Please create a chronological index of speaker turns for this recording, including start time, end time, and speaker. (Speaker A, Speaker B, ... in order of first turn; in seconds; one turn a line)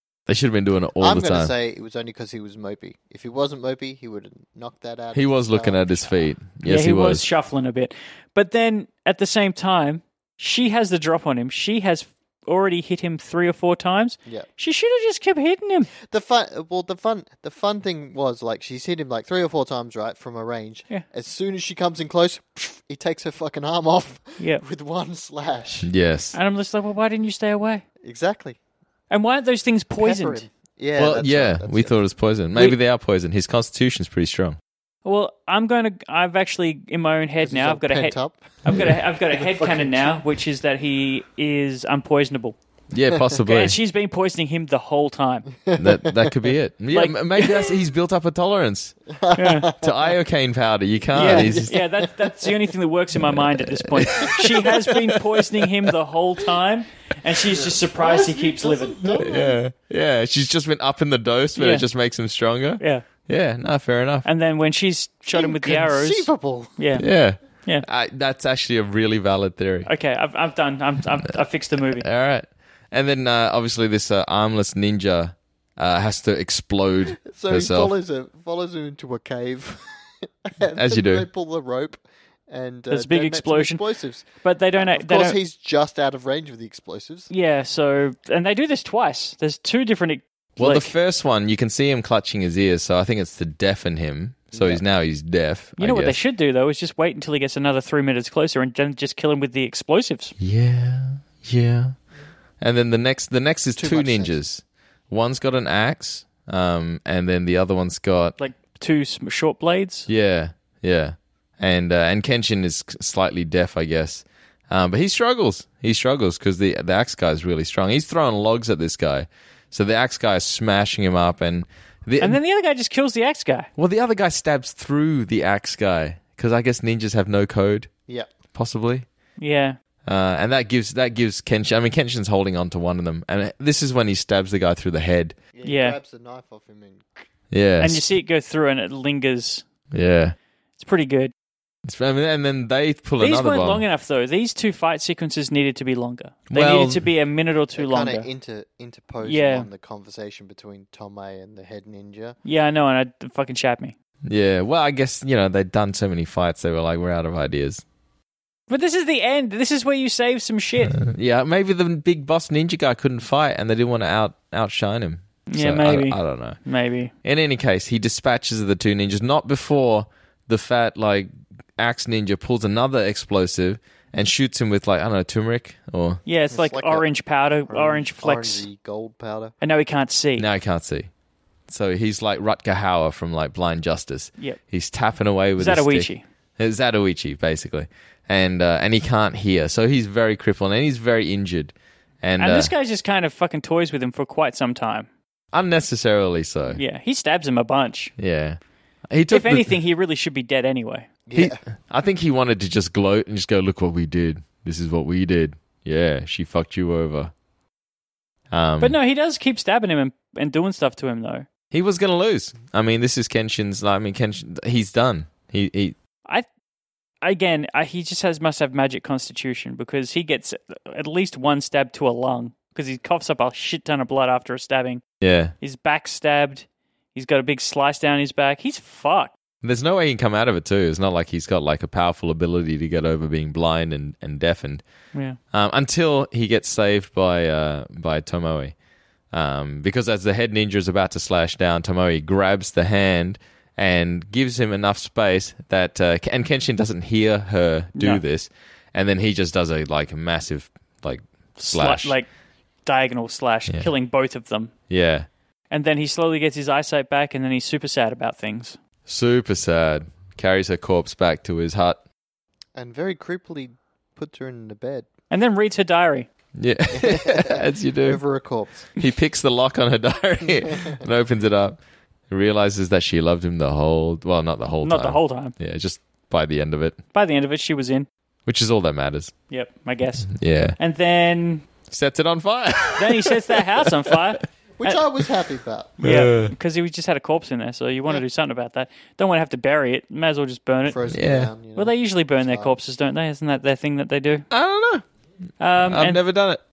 Speaker A: 0.3-1.5
Speaker B: 1.0-6.3
Speaker A: 5.1-7.2
Speaker C: 6.6-15.9
Speaker B: 16.0-25.9
Speaker A: 25.8-26.4
Speaker C: 26.3-27.8
Speaker B: 28.0-28.6
Speaker C: 29.1-30.5
Speaker B: 30.0-32.0
Speaker A: 31.0-34.6
Speaker C: 35.0-42.5
Speaker B: 37.4-40.2
Speaker A: 42.9-43.8
Speaker B: 43.1-43.4
Speaker C: 43.4-45.5
Speaker B: 45.5-46.5
Speaker A: 45.8-49.1
Speaker C: 46.9-47.5
Speaker B: 49.1-50.2
Speaker C: 49.3-49.7
Speaker A: 49.8-51.7
Speaker C: 51.1-59.3
Speaker B: 51.1-52.5
Speaker A: 53.2-55.1
Speaker B: 57.4-59.6
Speaker A: 59.2-64.3
Speaker C: 61.5-61.9
Speaker C: 62.8-63.0
Speaker C: 64.2-67.0
Speaker B: 65.3-66.8
Speaker A: 67.0-69.9
Speaker C: 67.5-67.8
Speaker C: 69.8-72.0
Speaker A: 72.0-77.9
Speaker B: 77.2-87.3
Speaker A: 80.7-81.3
Speaker C: 82.9-85.4
Speaker C: 87.3-90.9
Speaker A: 90.6-96.2
Speaker B: 94.5-94.8
Speaker C: 95.8-100.3
Speaker A: 100.4-102.0
Speaker A: 102.6-108.4
Speaker B: 103.7-104.4
Speaker C: 108.4-110.1
Speaker A: 110.1-122.4
Speaker C: 122.2-123.7
Speaker A: 123.8-127.9
Speaker B: 128.1-128.3
Speaker A: 128.5-129.1
Speaker C: 129.4-129.8
Speaker A: 130.0-135.3
Speaker B: 135.5-137.3
Speaker C: 135.6-136.0
Speaker A: 137.5-138.0
Speaker C: 137.8-139.7
Speaker A: 139.9-140.3
Speaker C: 140.8-141.3
Speaker A: 141.8-143.8
Speaker C: 143.2-148.3
Speaker A: 146.5-147.0
Speaker B: 147.7-152.4
Speaker C: 149.2-149.7
Speaker C: 152.4-153.9
Speaker A: 154.2-157.8
Speaker C: 158.7-161.0
Speaker A: 160.9-166.6
Speaker C: 165.5-167.1
Speaker A: 167.2-176.2
Speaker C: 176.2-178.7
Speaker B: 176.5-177.1
Speaker B: 177.7-179.5
Speaker C: 179.6-180.5
Speaker A: 180.4-181.1
Speaker A: 181.7-192.7
Speaker C: 185.6-186.2
Speaker C: 192.4-195.1
Speaker A: 195.5-196.8
Speaker C: 196.7-198.1
Speaker A: 198.2-199.7
Speaker C: 199.3-201.1
Speaker B: 201.3-201.6
Speaker A: 201.3-207.3
Speaker A: 208.5-208.9
Speaker C: 208.8-211.5
Speaker A: 211.7-215.9
Speaker C: 217.2-225.0
Speaker A: 225.2-225.5
Speaker C: 225.6-229.3
Speaker A: 229.6-234.8
Speaker A: 235.5-238.8
Speaker A: 239.3-252.2
Speaker C: 247.9-248.2
Speaker C: 251.6-252.3
Speaker C: 252.8-254.7
Speaker A: 254.9-255.3
Speaker C: 255.7-258.8
Speaker A: 259.1-262.0
Speaker B: 262.7-265.1
Speaker C: 265.3-266.3
Speaker A: 266.5-268.2
Speaker B: 266.9-268.9
Speaker A: 268.9-277.0
Speaker C: 274.8-275.5
Speaker C: 277.1-278.1
Speaker A: 278.4-279.3
Speaker C: 279.5-281.6
Speaker A: 280.3-280.8
Speaker A: 281.9-283.7
Speaker C: 282.9-285.0
Speaker B: 284.8-285.9
Speaker C: 286.0-291.0
Speaker A: 286.0-286.5
Speaker B: 290.9-292.8
Speaker A: 291.1-291.5
Speaker C: 291.7-294.4
Speaker A: 294.5-295.0
Speaker C: 295.6-296.2
Speaker A: 295.8-296.6